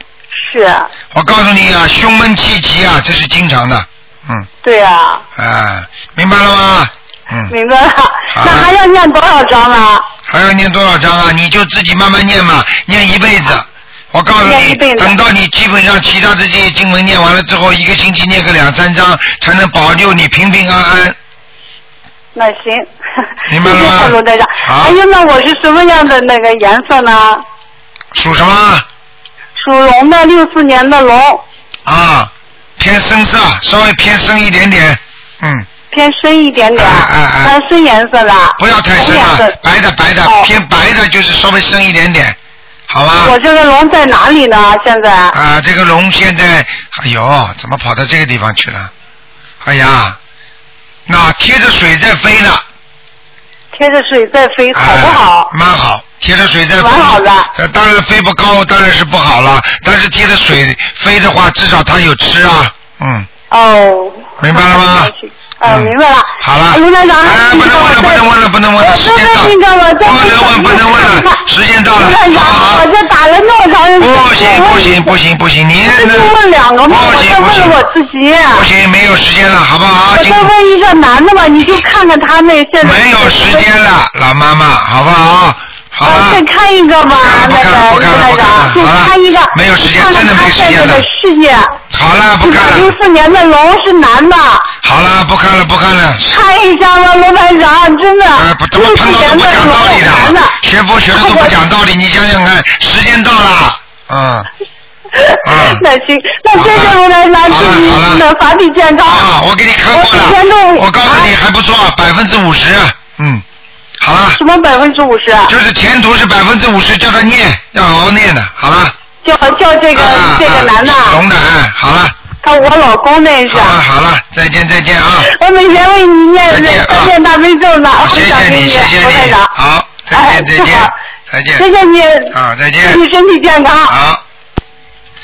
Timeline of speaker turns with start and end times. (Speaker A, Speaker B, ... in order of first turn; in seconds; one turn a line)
Speaker A: 0.3-0.9
Speaker B: 1.1-4.5
Speaker A: 4.6-5.2
Speaker B: 5.4-7.5
Speaker A: 7.5-10.1
Speaker B: 8.3-8.7
Speaker B: 10.3-21.2
Speaker A: 14.4-15.2
Speaker A: 22.4-27.4
Speaker B: 23.5-25.0
Speaker B: 28.1-28.9
Speaker A: 29.6-31.4
Speaker B: 31.9-35.7
Speaker A: 35.9-39.5
Speaker B: 36.8-37.5
Speaker B: 38.6-42.4
Speaker A: 40.2-40.5
Speaker B: 42.9-43.4
Speaker A: 43.2-45.4
Speaker B: 45.3-48.9
Speaker B: 49.6-50.2
Speaker B: 51.1-52.6
Speaker A: 53.7-55.5
Speaker B: 54.7-63.3
Speaker A: 56.8-57.5
Speaker A: 63.5-68.2
Speaker B: 64.4-65.1
Speaker B: 65.6-72.9
Speaker A: 68.8-71.4
Speaker A: 72.0-75.1
Speaker B: 74.0-76.3
Speaker A: 75.9-78.7
Speaker B: 76.9-77.8
Speaker B: 78.5-80.5
Speaker A: 80.1-83.7
Speaker B: 82.8-86.4
Speaker A: 86.0-91.8
Speaker B: 87.2-91.0
Speaker B: 91.9-92.9
Speaker A: 92.4-94.7
Speaker B: 94.8-96.4
Speaker A: 96.3-100.5
Speaker B: 98.4-104.5
Speaker A: 101.1-101.5
Speaker A: 105.1-109.3
Speaker B: 105.4-105.8
Speaker B: 106.5-107.0
Speaker B: 107.5-108.2
Speaker B: 109.1-113.4
Speaker A: 109.9-111.3
Speaker B: 114.0-114.4
Speaker A: 114.3-115.5
Speaker B: 115.5-119.0
Speaker A: 119.2-121.2
Speaker B: 119.9-122.2
Speaker A: 122.4-123.8
Speaker B: 123.5-125.3
Speaker A: 125.2-129.5
Speaker B: 126.5-127.1
Speaker B: 128.0-131.6
Speaker A: 130.1-130.9
Speaker A: 131.6-134.0
Speaker B: 132.3-133.0
Speaker B: 133.9-134.2